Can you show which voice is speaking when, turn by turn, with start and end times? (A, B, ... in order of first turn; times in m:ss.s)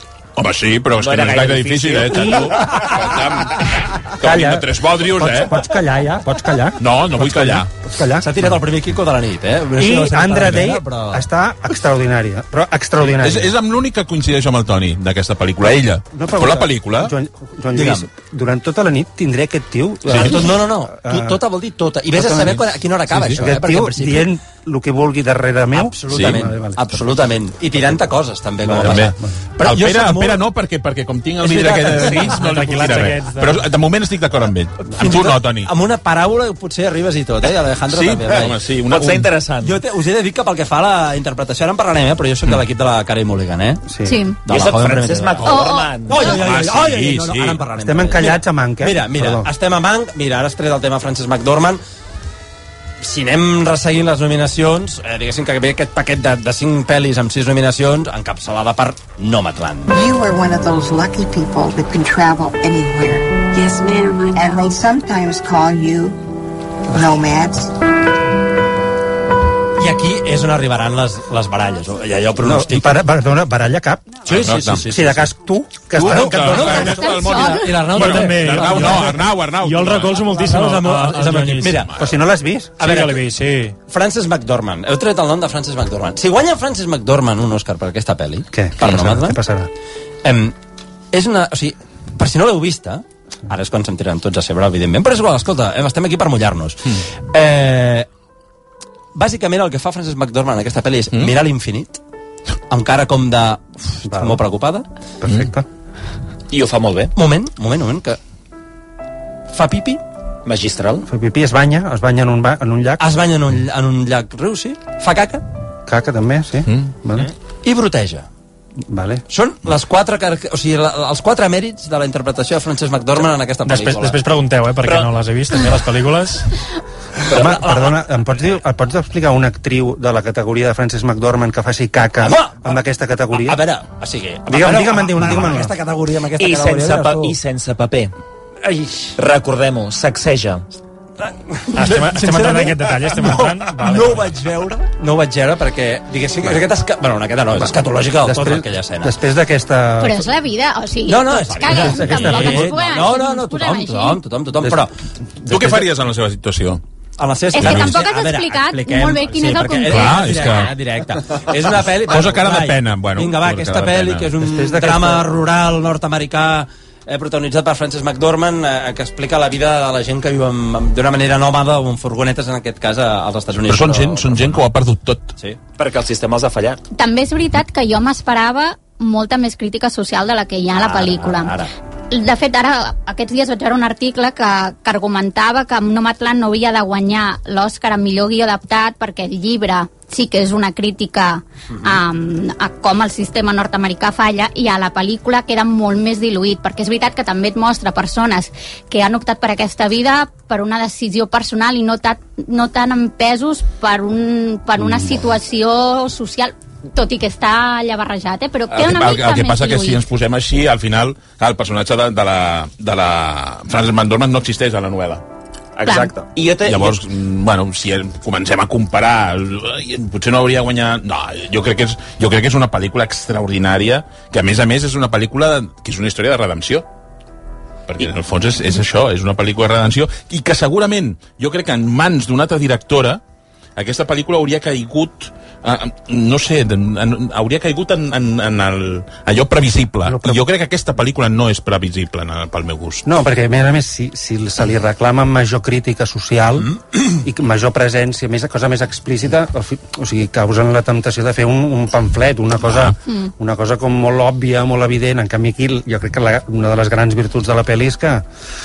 0:00.4-0:05.7 A
0:01.0-0:02.5 B
0:04.2-0:08.5 C
0:06.8-0:07.7 A
0:08.2-0:11.2 D
0:09.8-0:13.5 C
0:13.0-0:17.1 A
0:16.1-0:21.4 C
0:17.7-0:18.1 D
0:20.0-0:20.4 A
0:20.1-0:24.3 D
0:22.1-0:22.6 C
0:22.4-0:23.4 A
0:23.4-0:26.8 C
0:25.7-0:30.4 D
0:26.1-0:26.5 A
0:28.6-0:35.7 A
0:31.4-0:32.5 D
0:32.2-0:33.7 E
0:34.9-0:38.6 D
0:37.9-0:39.3 A
0:38.8-0:39.8 B
0:39.6-0:43.8 D
0:43.9-0:44.2 C
0:44.0-0:44.4 F
0:44.4-0:51.8 D
0:44.5-0:46.3 B
0:45.4-0:46.4 F
0:46.2-0:47.6 A
0:47.8-0:49.5 C
0:53.0-0:59.9 D
0:59.9-1:06.2 G
1:06.9-1:07.7 G
1:09.8-1:13.0 D
1:12.4-1:14.2 C
1:14.2-1:15.3 D
1:14.2-1:15.0 A
1:14.9-1:16.8 C
1:15.9-1:20.2 A
1:15.9-1:19.3 D
1:16.8-1:17.8 F
1:17.8-1:21.9 E
1:20.2-1:22.0 D
1:21.8-1:22.2 A
1:22.0-1:22.8 C
1:22.8-1:23.3 D
1:22.8-1:23.7 E
1:23.9-1:29.4 D
1:28.5-1:29.7 C
1:30.2-1:30.5 D
1:31.1-1:38.1 D
1:39.1-1:42.0 D
1:42.7-1:44.8 D
1:44.0-1:44.4 C
1:45.2-1:45.6 C
1:45.2-1:45.5 A
1:46.5-1:47.1 B
1:47.2-1:48.2 D
1:49.5-1:50.0 D
1:50.4-1:51.0 B
1:51.1-1:53.0 C
1:53.0-1:55.4 D
1:55.9-1:57.3 C
1:57.6-1:58.2 D
1:58.9-1:59.2 C
1:59.3-2:04.2 D
2:03.6-2:06.5 E
2:04.8-2:05.1 B
2:07.3-2:07.7 B
2:07.3-2:13.6 C
2:07.4-2:08.0 D
2:12.2-2:12.8 D
2:13.4-2:17.4 D
2:14.5-2:15.7 C
2:16.4-2:18.1 B
2:18.6-2:19.1 D
2:19.2-2:20.6 B
2:21.2-2:29.1 D
2:21.7-2:24.3 E
2:28.2-2:30.2 C
2:30.0-2:34.2 F
2:31.0-2:34.9 D
2:31.7-2:32.8 C
2:35.5-2:36.8 A
2:35.5-2:35.8 D
2:37.2-2:54.7 D
2:37.5-2:40.2 F
2:37.6-2:38.0 A
2:39.9-2:40.7 A
2:42.0-2:44.3 A
2:44.4-2:45.2 C
2:53.7-2:55.3 A
2:55.8-2:56.8 B
2:56.9-3:01.6 F
3:00.7-3:01.7 D
3:02.1-3:30.0 F
3:11.7-3:12.0 D
3:28.7-3:35.2 A
3:35.8-3:37.0 B
3:35.8-3:36.2 F
3:36.6-3:46.8 A
3:47.9-3:53.2 A
3:53.8-4:03.1 A
4:00.0-4:00.4 C
4:03.0-4:18.2 C
4:12.6-4:12.9 A